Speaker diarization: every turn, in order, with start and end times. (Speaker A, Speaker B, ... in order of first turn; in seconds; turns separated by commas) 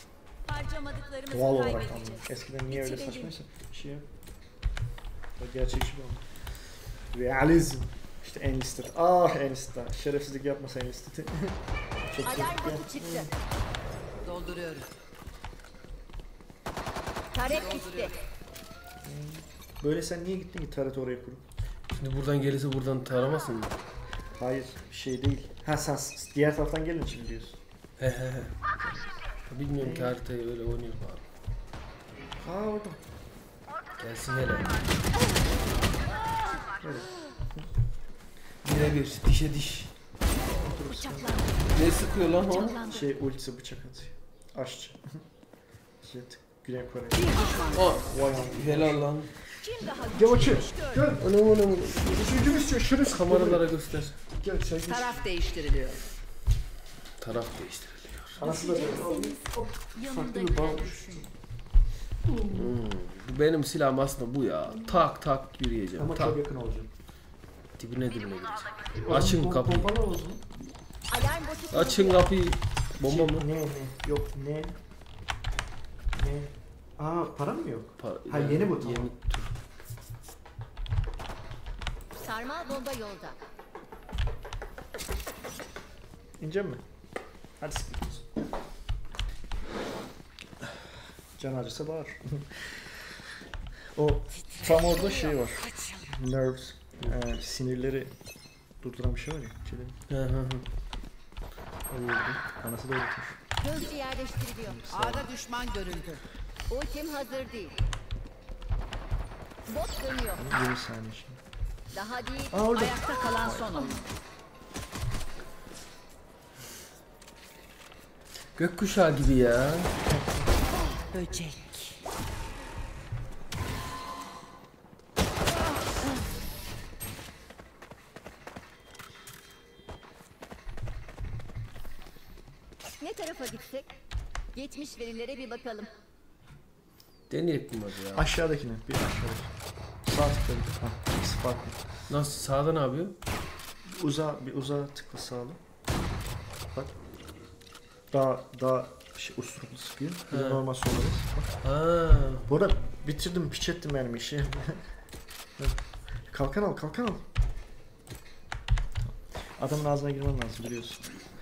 Speaker A: 0.5-3.3, Speaker B: 1.3-4.1, Speaker B: 5.4-6.3, Speaker B: 7.1-13.3, Speaker A: 12.2-13.3, Speaker C: 14.2-14.9, Speaker A: 17.3-18.1, Speaker C: 17.5-18.1, Speaker B: 19.0-21.4, Speaker D: 21.9-23.7, Speaker B: 24.3-27.6, Speaker D: 28.0-28.5, Speaker B: 28.8-29.2, Speaker D: 29.5-31.2, Speaker B: 29.8-30.2, Speaker B: 32.4-33.0, Speaker D: 34.0-34.7, Speaker B: 36.8-37.7, Speaker D: 38.6-39.9, Speaker B: 40.4-41.5, Speaker A: 40.8-41.8, Speaker D: 41.7-42.9, Speaker A: 42.5-43.1, Speaker B: 42.8-45.2, Speaker B: 46.0-51.3, Speaker C: 47.1-48.1, Speaker D: 47.7-49.3, Speaker A: 49.6-51.0, Speaker D: 51.2-52.5, Speaker B: 52.0-53.7, Speaker D: 53.0-54.1, Speaker B: 54.2-55.2, Speaker C: 54.9-56.0, Speaker D: 57.2-58.4, Speaker B: 58.4-61.3, Speaker A: 58.4-61.2, Speaker B: 62.2-62.7, Speaker D: 62.5-66.4, Speaker B: 66.0-66.9, Speaker D: 67.8-69.9, Speaker B: 68.9-70.6, Speaker A: 71.1-72.2, Speaker D: 71.7-73.5, Speaker B: 73.0-74.8, Speaker B: 76.1-79.1, Speaker D: 78.0-79.5, Speaker A: 82.1-83.4, Speaker B: 86.4-86.8, Speaker B: 87.6-88.3, Speaker B: 91.4-93.4, Speaker B: 93.9-98.2, Speaker B: 98.8-100.0, Speaker D: 100.1-100.6, Speaker B: 101.9-103.4, Speaker A: 103.6-104.8, Speaker B: 104.6-105.3, Speaker C: 104.9-106.2, Speaker A: 106.7-107.8, Speaker A: 109.7-110.4, Speaker B: 110.3-111.4, Speaker A: 111.9-112.7, Speaker B: 112.5-113.8, Speaker C: 112.7-114.0, Speaker D: 118.5-119.9, Speaker C: 121.1-121.8, Speaker A: 133.0-134.0, Speaker A: 134.5-135.9, Speaker D: 137.3-138.3, Speaker B: 138.1-139.5, Speaker B: 140.0-141.8, Speaker D: 142.1-143.1, Speaker B: 143.8-145.6, Speaker B: 148.1-151.5, Speaker D: 150.3-150.7, Speaker D: 151.6-152.4, Speaker B: 152.5-154.8, Speaker B: 156.3-157.2, Speaker B: 159.0-161.0